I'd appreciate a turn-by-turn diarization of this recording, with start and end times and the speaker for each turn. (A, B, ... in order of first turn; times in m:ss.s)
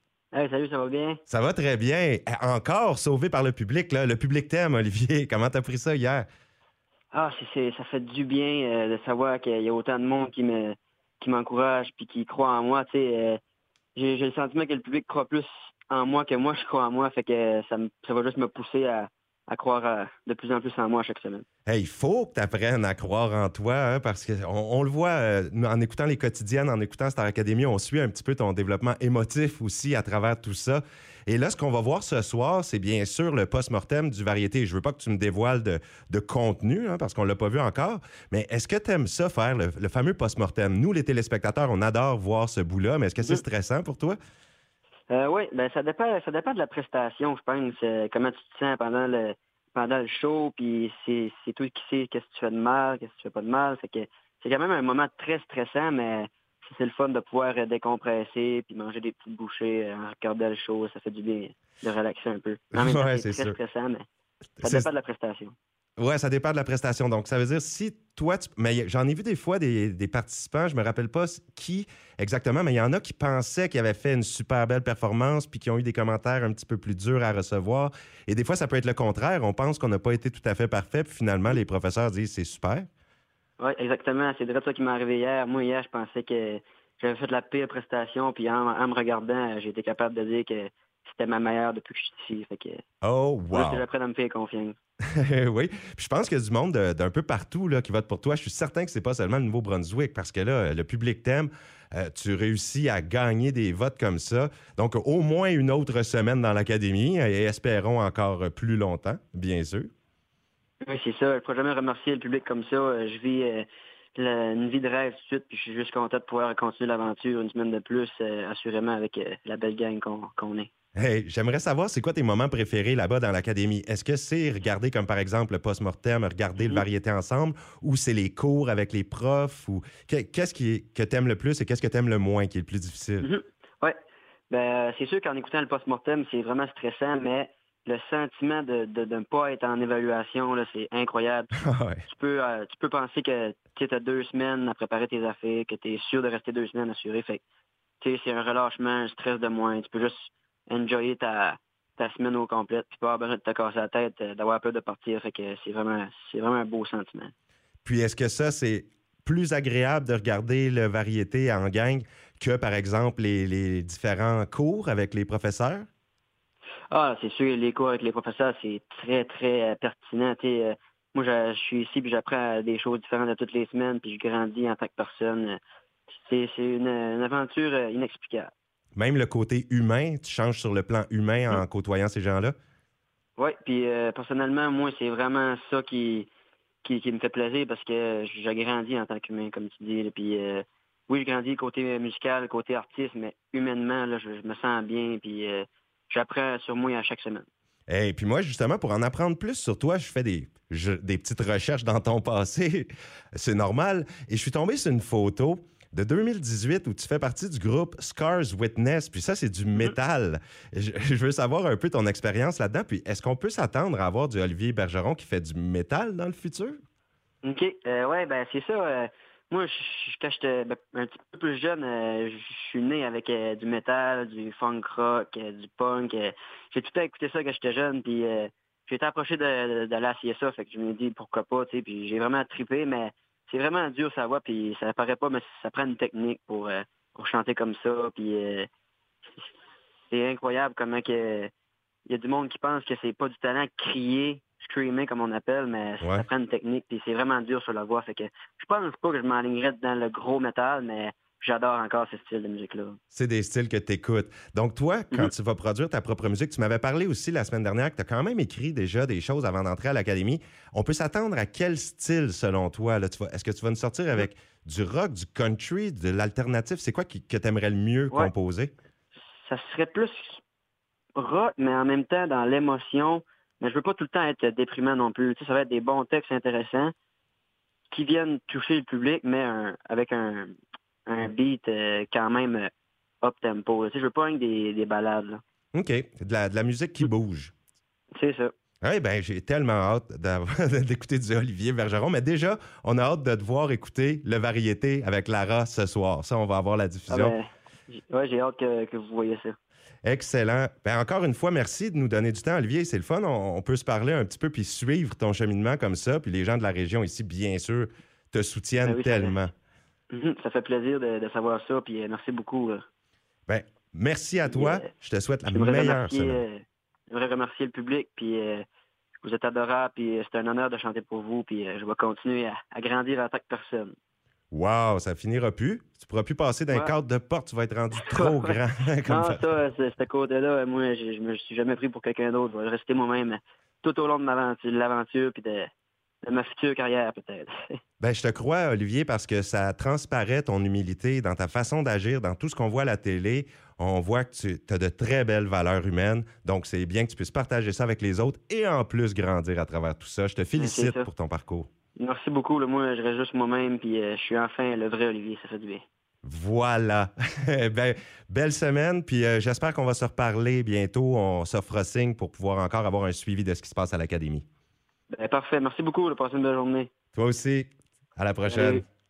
0:00.3-0:01.2 A
0:01.3-0:06.3 B
0:07.1-0:13.4 A
0:14.0-0:21.5 A
0:21.7-0:44.2 B
0:45.1-1:04.1 A
1:02.7-1:03.6 B
1:04.6-1:04.9 B
1:04.6-1:05.6 A
1:06.0-1:22.9 B
1:23.6-1:32.8 A
1:33.0-1:33.8 B
1:33.5-1:34.8 A
1:35.2-1:49.9 B
1:50.8-2:00.7 A
2:01.0-2:13.3 B
2:06.6-2:06.8 A
2:13.2-2:14.0 A
2:14.5-2:27.4 A
2:21.6-2:22.0 B
2:28.0-2:37.3 A
2:37.8-2:45.9 B
2:46.9-2:55.6 A
2:56.2-2:58.5 A
2:59.0-3:02.6 B
3:03.4-3:06.3 A
3:06.8-3:17.5 A
3:17.9-3:36.8 B
3:37.4-3:58.7 A
4:00.1-4:01.5 A
4:02.1-4:13.0 A
4:13.1-4:28.7 B
4:29.4-4:30.4 A
4:31.2-4:36.9 A
4:37.9-4:42.7 A
4:43.2-4:45.4 A
4:45.7-4:47.5 B
4:48.2-4:48.5 A
4:48.8-4:57.4 B
4:57.1-4:59.6 A
5:00.0-5:09.5 B
5:08.8-5:09.4 A
5:10.1-5:12.8 A
5:13.5-5:16.4 B
5:14.5-5:14.9 A
5:15.5-5:18.7 A
5:19.2-5:24.0 A
5:24.5-5:29.6 B
5:28.0-5:35.7 A
5:36.2-5:37.8 A
5:38.0-5:51.7 B
5:50.6-5:51.1 A
5:52.0-5:55.8 A
5:56.2-6:04.5 B
6:05.1-6:06.9 A
6:07.2-6:08.8 B
6:08.5-6:08.8 A